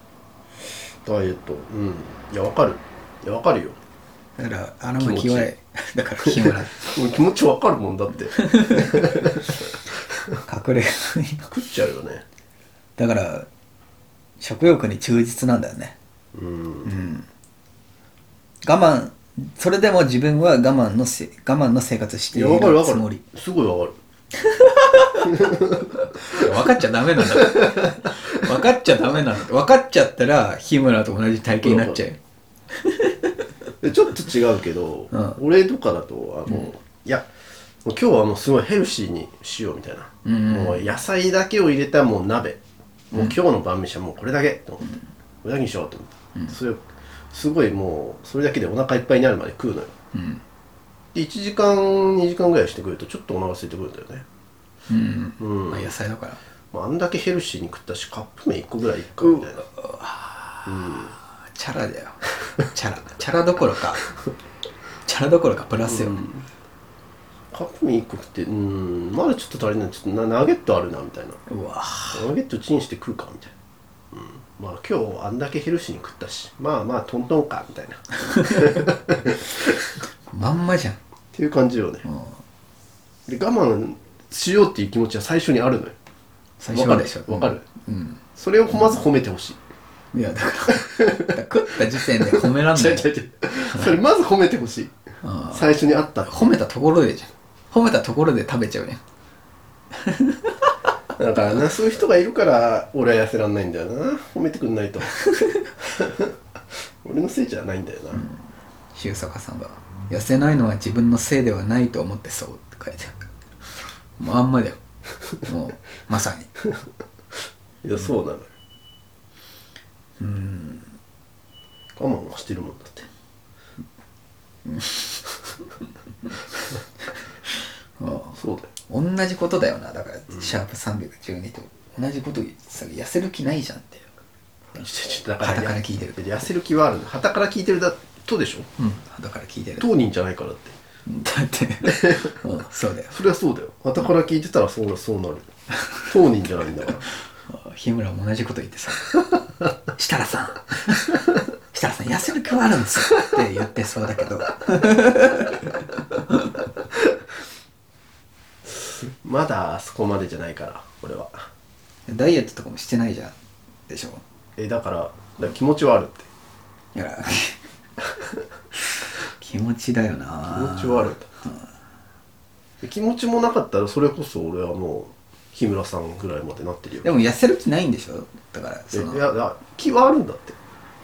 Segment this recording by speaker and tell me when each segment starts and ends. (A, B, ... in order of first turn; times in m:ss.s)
0:01.0-0:03.8 A
0:04.4-0:07.0 B
0:05.0-0:05.5 A
0:06.2-0:09.6 A
0:08.4-0:09.3 B
0:10.4-0:11.5 B
0:11.5-0:12.2 A
0:13.0-0:13.5 B
0:14.4-0:16.0 B
0:16.3-0:16.9 A
0:16.8-0:17.3 B
0:18.6-0:23.2 B
0:22.3-0:24.0 A
0:24.4-0:32.2 B
0:25.4-0:25.9 A
0:27.4-0:27.9 A
0:31.6-0:32.0 A
0:32.8-0:33.4 B
0:33.8-0:37.3 A
0:35.1-0:35.4 B
0:37.8-0:42.6 A
0:40.2-0:40.9 B
0:43.1-0:43.4 B
0:43.1-0:49.9 A
0:50.1-0:50.4 B
0:51.1-0:54.2 A
0:54.9-0:56.4 B
0:55.4-0:56.0 A
0:56.7-0:59.7 A
0:59.2-1:04.0 B
1:00.7-1:01.2 A
1:05.0-1:06.2 B
1:05.8-1:06.5 A
1:07.5-1:11.4 A
1:11.5-1:12.3 B
1:12.1-1:13.5 A
1:14.1-1:19.4 A
1:18.6-1:18.8 B
1:20.3-1:21.0 B
1:21.3-1:22.1 A
1:22.1-1:22.4 B
1:23.3-1:26.0 A
1:26.6-1:28.2 B
1:26.7-1:27.6 A
1:28.4-1:29.6 A
1:30.1-1:33.1 B
1:31.0-1:35.0 A
1:33.7-1:34.0 B
1:35.2-1:39.0 B
1:35.5-1:36.6 A
1:40.0-1:40.7 B
1:41.2-1:45.2 A
1:45.2-1:45.6 B
1:45.8-1:46.3 A
1:47.0-1:48.2 A
1:48.1-1:53.2 B
1:54.2-1:54.8 B
1:55.4-1:56.5 B
1:57.8-1:58.5 A
2:00.2-2:00.9 B
2:02.0-2:03.1 A
2:04.7-2:05.2 B
2:08.0-2:14.1 B
2:08.4-2:08.7 A
2:14.7-2:18.7 A
2:15.4-2:16.5 B
2:18.8-2:19.9 B
2:19.8-2:20.8 A
2:21.1-2:23.2 B
2:21.8-2:22.4 A
2:23.1-2:25.5 A
2:26.0-2:27.1 A
2:27.4-2:29.1 B
2:29.9-2:36.4 B
2:39.1-2:41.5 A
2:42.1-2:43.4 B
2:43.9-2:44.2 B
2:44.6-2:46.3 A
2:46.9-2:47.6 B
2:49.3-2:51.7 B
2:50.5-2:51.3 A
2:52.8-2:57.1 A
2:57.0-2:59.2 B
2:58.9-3:00.6 A